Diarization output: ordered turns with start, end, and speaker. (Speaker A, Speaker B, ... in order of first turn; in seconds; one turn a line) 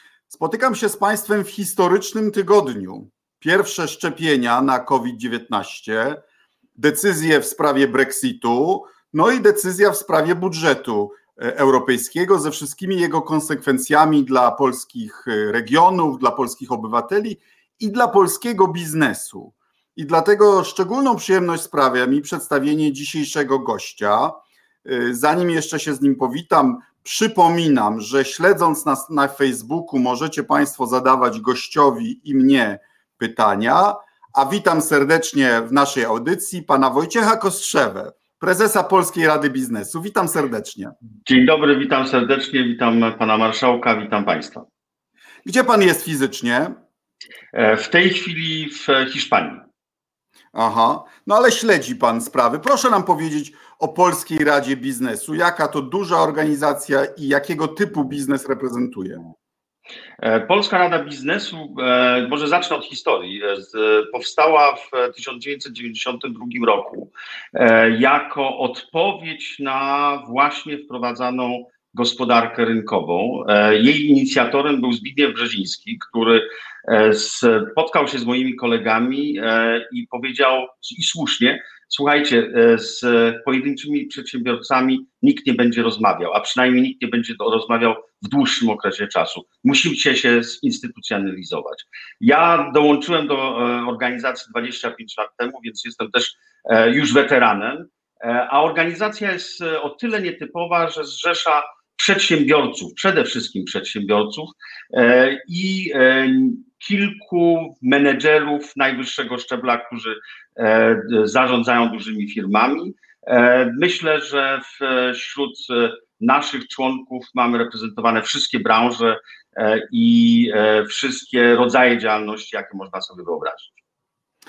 Speaker A: 0.3-6.2
Speaker A: 6.8-40.9
Speaker B: 41.2-44.7
Speaker A: 45.4-46.8
Speaker B: 47.5-49.6
Speaker A: 50.5-59.2
Speaker B: 60.2-123.7